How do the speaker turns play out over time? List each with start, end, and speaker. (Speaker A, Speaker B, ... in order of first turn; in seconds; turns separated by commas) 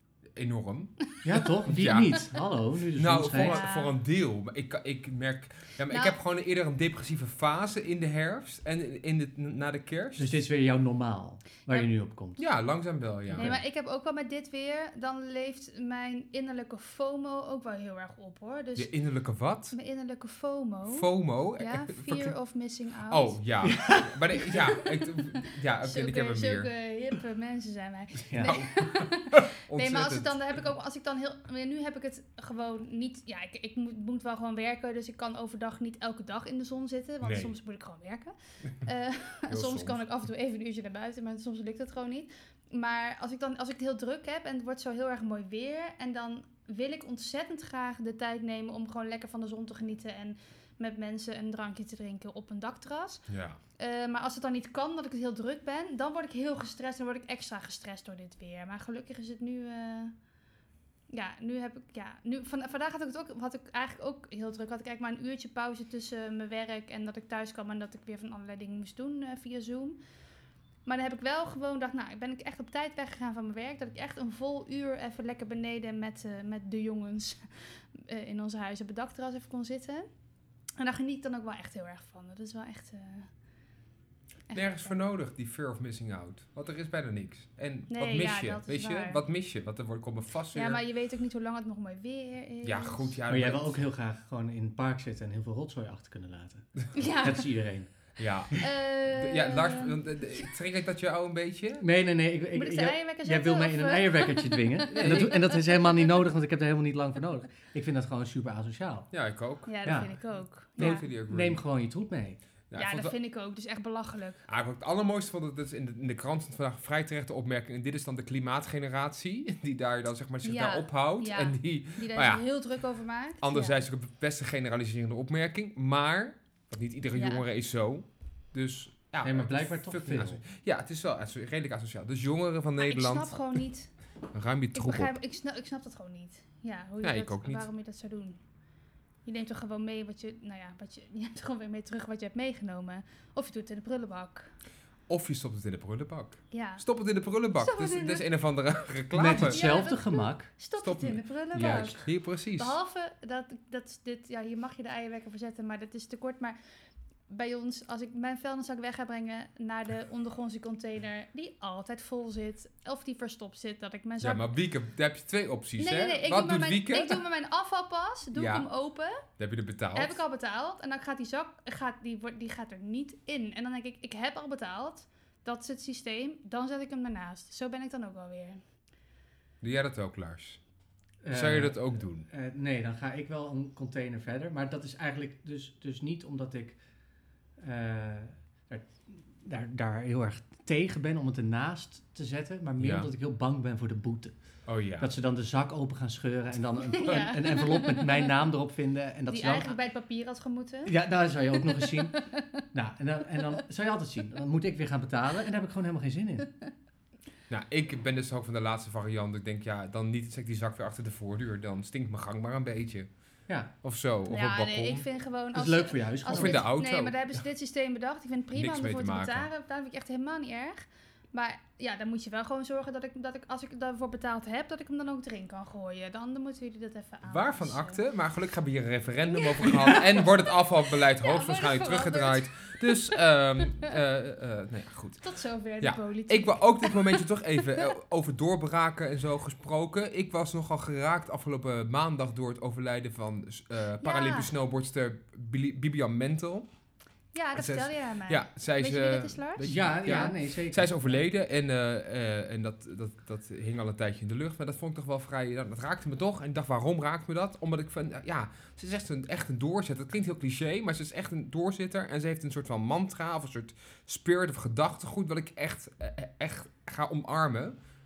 Speaker A: 0.3-2.3, Speaker B: 1.2-3.6, Speaker A: 2.9-10.3, Speaker C: 3.4-4.0, Speaker C: 5.9-6.2, Speaker B: 10.2-12.4, Speaker A: 12.4-13.6, Speaker B: 13.3-13.6, Speaker C: 13.4-18.9, Speaker A: 18.8-19.8, Speaker C: 19.7-21.1, Speaker A: 20.9-22.3, Speaker C: 21.6-23.8, Speaker A: 23.1-26.7, Speaker B: 23.6-24.1, Speaker C: 24.5-24.8, Speaker C: 25.8-53.2, Speaker B: 28.3-28.6, Speaker A: 28.4-30.4, Speaker A: 37.2-37.5, Speaker A: 39.5-40.0, Speaker A: 53.3-53.6, Speaker C: 53.8-60.1, Speaker C: 61.1-70.0, Speaker C: 70.8-77.4, Speaker C: 77.9-80.1, Speaker C: 80.8-83.3, Speaker C: 84.5-84.9, Speaker A: 84.5-90.8, Speaker C: 87.9-89.2, Speaker C: 90.5-93.1, Speaker A: 92.6-93.8, Speaker B: 93.3-97.9, Speaker C: 96.9-97.5, Speaker A: 98.2-101.8, Speaker C: 98.6-100.5, Speaker B: 101.8-109.1, Speaker C: 102.5-105.7, Speaker A: 104.9-105.4, Speaker A: 109.1-110.1, Speaker C: 109.7-111.0, Speaker B: 109.8-110.1, Speaker A: 110.8-111.6, Speaker B: 110.8-112.4, Speaker A: 112.7-113.1, Speaker C: 112.8-114.4, Speaker A: 114.5-122.4, Speaker C: 120.4-123.8, Speaker A: 123.4-133.5, Speaker C: 127.1-127.4, Speaker B: 129.2-130.4, Speaker C: 132.8-133.9, Speaker A: 134.3-135.1, Speaker C: 134.7-138.4, Speaker A: 137.0-137.7, Speaker C: 139.2-144.5, Speaker A: 145.1-149.6, Speaker C: 146.5-146.8, Speaker C: 147.6-148.2, Speaker B: 149.1-150.5, Speaker C: 149.4-156.6, Speaker A: 150.8-152.7, Speaker B: 151.5-152.0, Speaker C: 157.3-164.5, Speaker A: 164.2-167.2, Speaker C: 165.8-169.2, Speaker A: 168.3-168.7, Speaker A: 169.4-170.2, Speaker C: 169.9-178.6, Speaker A: 179.6-180.6, Speaker B: 181.2-186.8, Speaker A: 181.3-182.3, Speaker B: 187.6-194.4, Speaker A: 192.8-193.1, Speaker A: 194.7-195.1, Speaker B: 195.0-199.7, Speaker C: 196.9-198.3, Speaker C: 199.3-200.9, Speaker B: 200.8-206.5, Speaker C: 201.6-202.6, Speaker A: 207.5-213.1, Speaker A: 213.8-215.0, Speaker C: 214.3-228.0, Speaker B: 215.5-216.6, Speaker A: 216.3-217.4, Speaker A: 218.5-219.5, Speaker A: 227.2-235.2, Speaker C: 229.3-230.2, Speaker C: 231.2-233.1, Speaker C: 235.2-237.2, Speaker A: 235.8-246.7, Speaker C: 244.0-244.5, Speaker C: 247.3-250.3, Speaker A: 247.6-267.8, Speaker B: 249.6-251.2